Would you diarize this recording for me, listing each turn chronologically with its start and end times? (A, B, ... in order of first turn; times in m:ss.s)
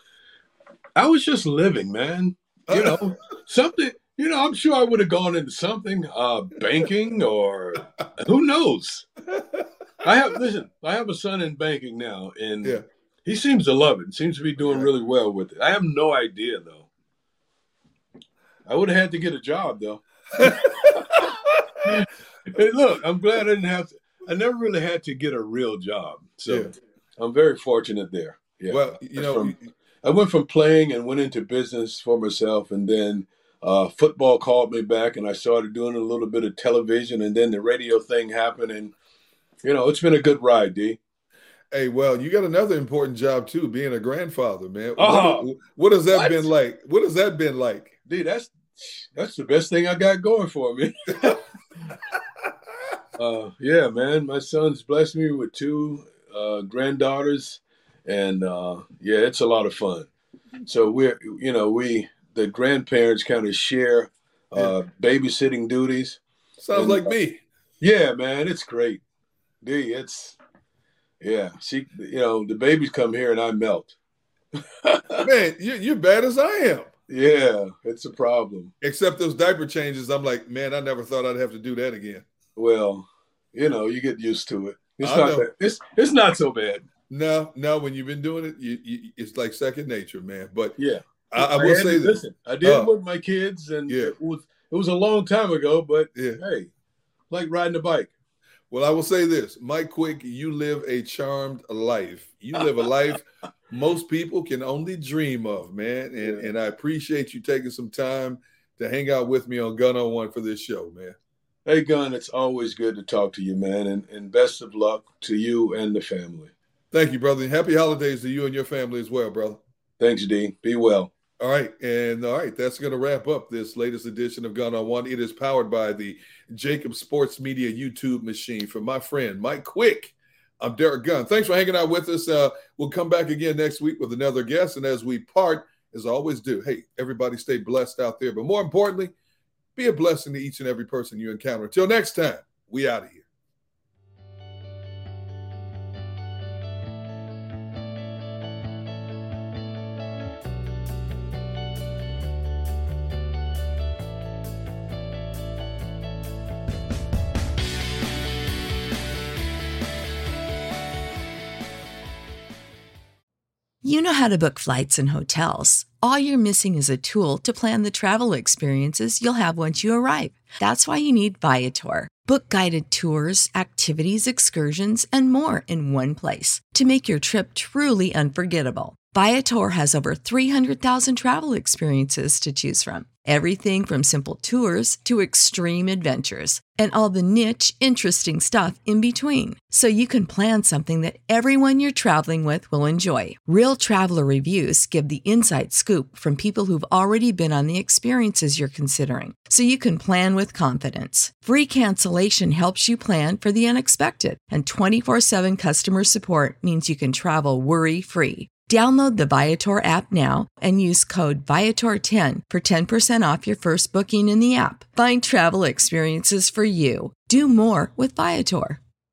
0:01.0-0:09.1 A
0:02.7-0:03.0 B
0:09.4-0:09.6 B
0:10.0-0:16.9 A
0:14.6-0:14.9 B
0:18.7-0:21.2 A
0:20.4-0:21.3 B
0:21.8-0:38.9 A
0:28.7-0:29.6 B
0:39.6-0:41.0 A
0:41.7-0:48.0 B
0:45.0-0:45.5 A
0:46.1-0:46.5 A
0:48.1-0:51.4 A
0:53.2-1:00.1 A
1:00.7-1:06.2 A
1:06.6-1:07.4 B
1:06.7-1:07.1 A
1:07.8-1:09.0 A
1:09.6-1:10.4 A
1:11.2-1:14.0 A
1:14.8-1:15.3 A
1:15.2-1:16.9 B
1:17.1-1:18.7 A
1:18.8-1:22.3 B
1:22.6-1:26.8 A
1:25.0-1:25.5 B
1:27.1-1:30.8 B
1:30.8-1:36.7 A
1:31.3-1:32.9 B
1:33.9-1:34.1 B
1:36.2-1:36.4 B
1:37.3-1:38.1 A
1:38.7-1:51.2 B
1:46.2-1:46.5 A
1:51.7-1:56.5 A
1:56.9-1:59.6 B
2:00.0-2:01.1 A
2:01.4-2:19.1 B
2:19.8-2:23.3 B
2:43.8-3:38.8 C